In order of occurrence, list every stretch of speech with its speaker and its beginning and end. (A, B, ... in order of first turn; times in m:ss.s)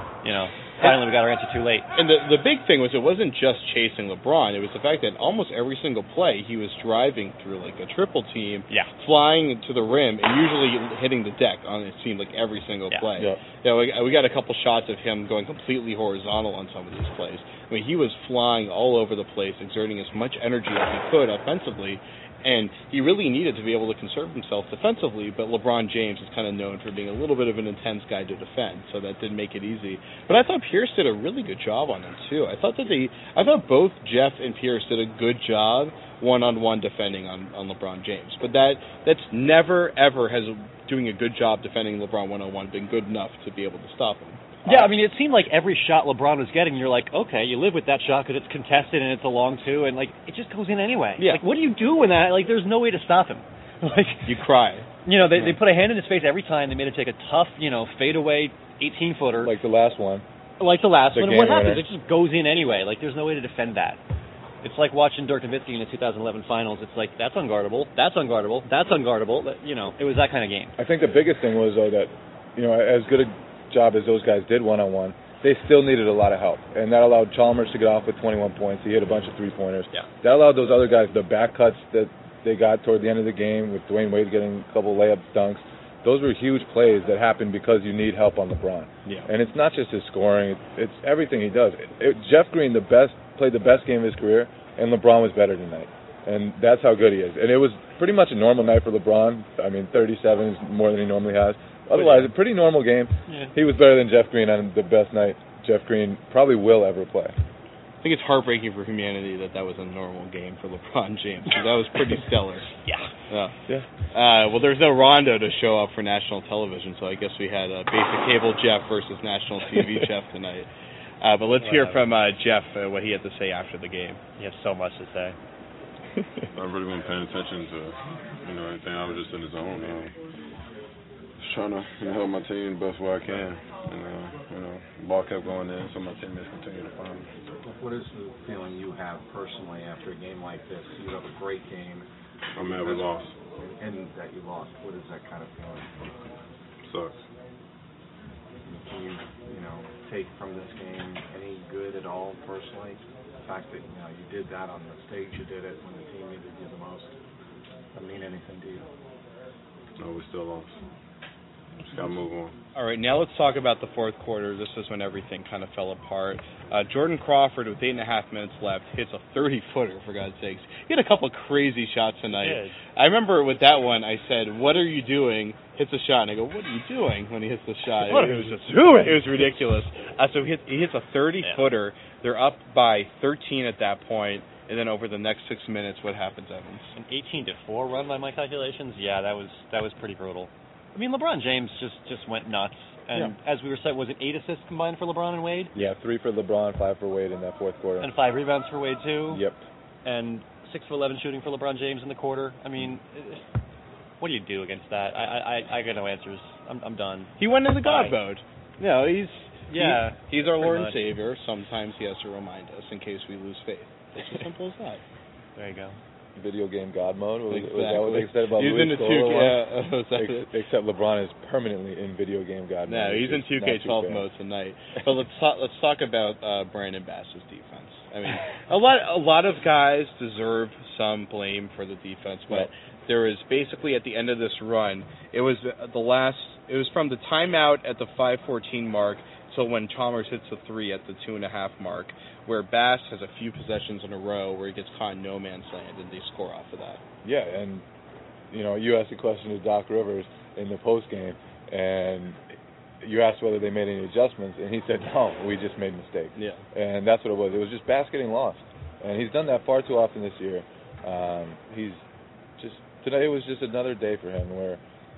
0:00.2-0:01.9 A
0:02.0-0:44.9 B
0:44.6-0:54.3 A
0:54.2-0:55.5 B
0:55.0-0:59.5 A
0:59.4-1:00.2 C
1:00.6-1:04.0 A
1:01.1-1:01.8 C
1:04.6-1:10.7 A
1:10.8-1:47.3 C
1:42.0-1:42.3 B
1:43.3-1:43.5 A
1:48.0-1:52.7 B
1:52.8-1:53.1 A
1:53.3-1:53.6 B
1:54.1-2:00.7 B
2:01.2-2:04.2 B
2:01.6-2:02.0 A
2:04.4-2:05.4 A
2:06.5-2:10.1 D
2:11.4-2:17.3 D
2:17.6-2:26.4 E
2:22.5-2:23.3 D
2:26.8-2:27.2 D
2:28.6-2:37.1 E
2:37.9-2:38.9 E
2:40.0-2:40.8 D
2:41.9-2:42.5 D
2:42.7-3:06.9 B
2:52.4-2:52.8 A
2:58.0-2:59.4 A
3:07.0-3:15.7 A
3:15.7-3:18.1 C
3:18.0-3:19.4 A
3:19.3-3:19.6 C
3:20.0-3:23.4 A
3:24.2-3:28.2 A
3:27.4-3:35.0 B
3:29.7-3:31.0 A
3:35.6-3:36.0 A
3:36.4-3:39.6 C
3:37.5-3:40.5 B
3:40.1-3:44.2 C
3:42.9-4:07.0 B
4:07.2-4:07.8 C
4:08.5-4:12.4 C
4:13.0-4:22.0 C
4:16.4-4:16.6 B
4:22.6-4:24.8 C